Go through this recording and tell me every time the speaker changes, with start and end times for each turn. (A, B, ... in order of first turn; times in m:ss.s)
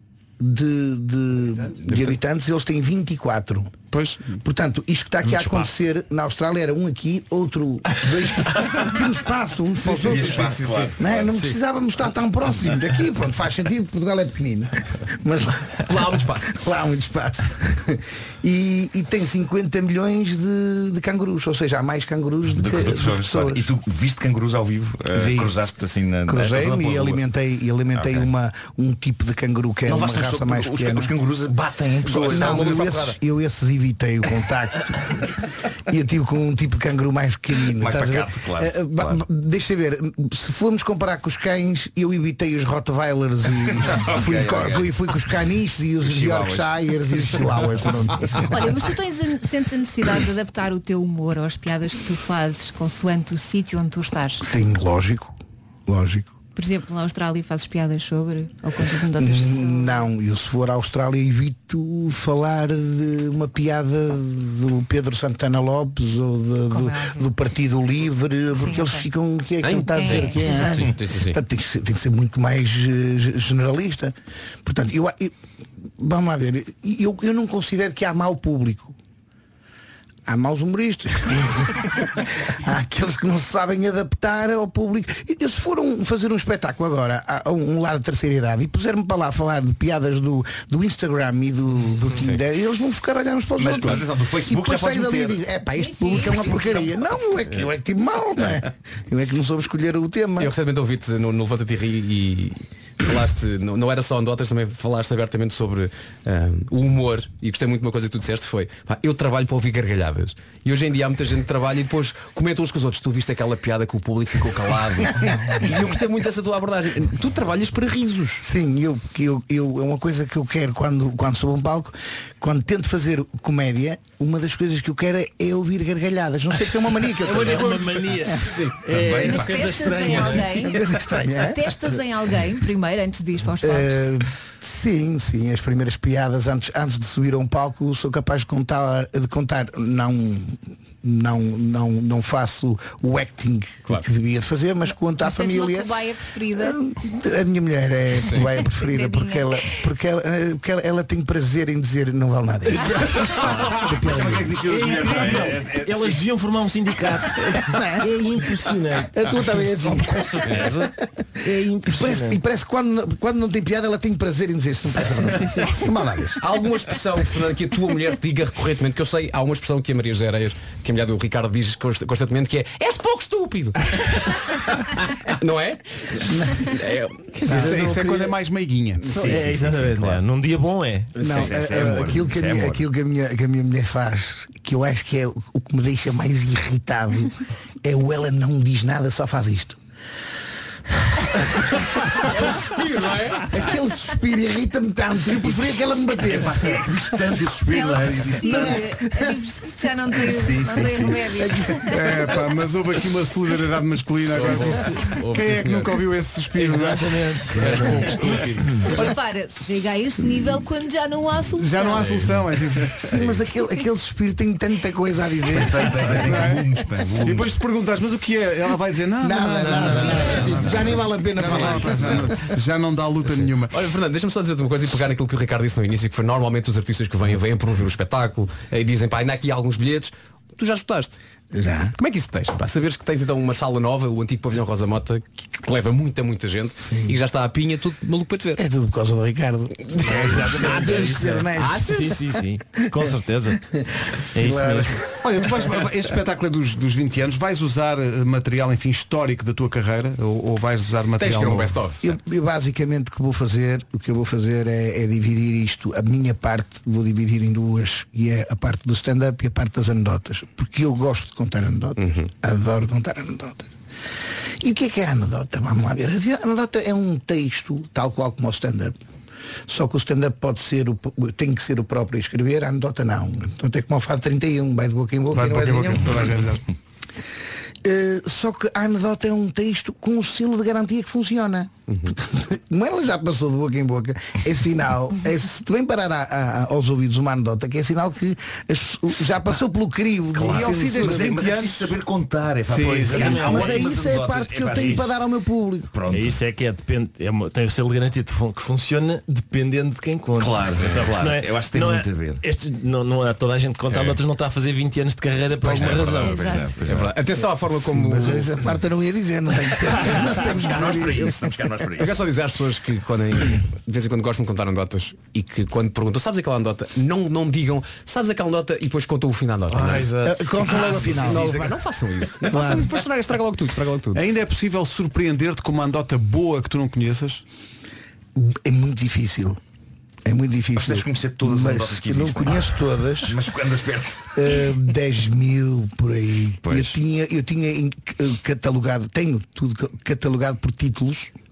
0:00.4-0:03.7 A
0:01.9-0:02.2 B
0:03.9-0:04.4 C
0:04.4-0:15.8 A
0:05.3-0:05.8 D
0:09.8-0:11.3 E
0:09.9-0:11.6 B
0:15.8-0:16.5 B
0:16.4-0:23.7 A
0:22.5-0:27.2 E
0:25.1-0:25.5 A
0:26.3-0:31.1 A
0:27.9-0:28.3 E
0:29.8-0:33.1 E
0:32.0-0:35.2 A
0:32.2-0:33.1 B
0:35.9-0:48.6 A
0:37.7-0:39.2 E
0:43.8-0:45.0 E
0:46.0-0:48.1 E
0:48.5-0:54.4 F
0:54.4-0:55.3 A
0:55.9-0:56.3 A
0:56.5-1:00.1 F
0:59.1-1:15.3 A
1:06.7-1:07.3 F
1:08.5-1:09.1 F
1:09.6-1:11.4 B
1:09.9-1:10.9 F
1:16.0-1:19.0 A
1:20.2-1:40.5 A
1:33.6-1:35.4 E
1:35.7-1:37.0 F
1:40.4-1:58.4 B
1:58.4-2:07.7 A
2:07.2-2:10.8 D
2:07.3-2:07.8 B
2:08.4-2:08.7 B
2:08.9-2:10.2 E
2:09.2-2:14.1 F
2:10.7-2:12.0 A
2:13.6-2:25.9 A
2:25.1-2:26.8 F
2:26.5-2:32.8 A
2:28.4-2:29.8 F
2:32.7-2:42.4 D
2:33.4-2:36.2 E
2:39.1-2:40.9 A
2:41.5-2:46.4 A
2:45.2-2:45.9 D
2:46.4-2:58.0 B
2:56.2-2:56.7 A
2:57.4-2:57.8 D
2:57.5-2:59.4 C
2:59.2-3:01.4 D
2:59.2-3:00.2 E
3:01.2-3:02.8 E
3:01.2-3:09.8 A
3:12.2-3:13.7 B
3:13.5-3:17.5 A
3:16.2-3:18.8 E
3:17.6-3:22.1 F
3:18.1-3:19.4 A
3:20.2-3:21.9 A
3:20.3-3:21.1 E
3:21.8-3:29.1 C
3:24.3-3:26.0 B
3:26.5-3:28.8 D
3:28.9-3:32.3 F
3:31.6-3:33.0 C
3:33.0-3:36.4 A
3:33.1-3:33.4 B
3:35.5-3:37.5 E
3:36.1-3:36.6 C
3:37.2-3:43.7 C
3:39.2-3:42.4 A
3:39.7-3:40.6 B
3:39.9-3:40.9 E
3:41.4-3:42.2 B
3:43.3-3:51.2 B
3:51.5-3:51.9 A
3:52.0-3:58.6 B
3:56.8-3:57.2 A
3:58.6-4:02.3 A
4:00.0-4:03.6 D
4:01.6-4:02.1 B
4:03.7-4:05.0 A
4:04.3-4:05.0 D
4:05.2-4:11.8 C
4:11.2-4:12.1 B
4:12.0-4:23.7 A
4:22.0-4:22.3 B
4:24.6-4:29.0 A
4:29.7-4:36.3 A
4:35.3-4:36.6 C
4:37.8-4:51.4 A
4:50.3-4:55.1 E
4:50.4-4:51.9 C
4:52.7-4:54.2 D
4:52.8-4:53.2 C
4:53.2-4:56.0 A
4:54.7-4:55.1 D
4:55.9-4:56.4 E
4:56.1-5:06.8 D
5:00.4-5:02.4 E
5:05.6-5:07.2 E
5:06.2-5:06.7 F
5:06.8-5:08.6 B
5:07.7-5:11.4 A
5:10.0-5:12.1 E
5:12.0-5:24.2 B
5:19.7-5:21.8 E
5:19.8-5:21.5 A
5:22.4-5:22.7 E
5:22.5-5:22.9 A
5:24.1-5:27.4 C
5:28.4-5:29.6 A
5:30.2-5:33.4 A
5:30.8-5:34.3 E
5:34.3-5:41.3 A
5:36.6-5:36.9 E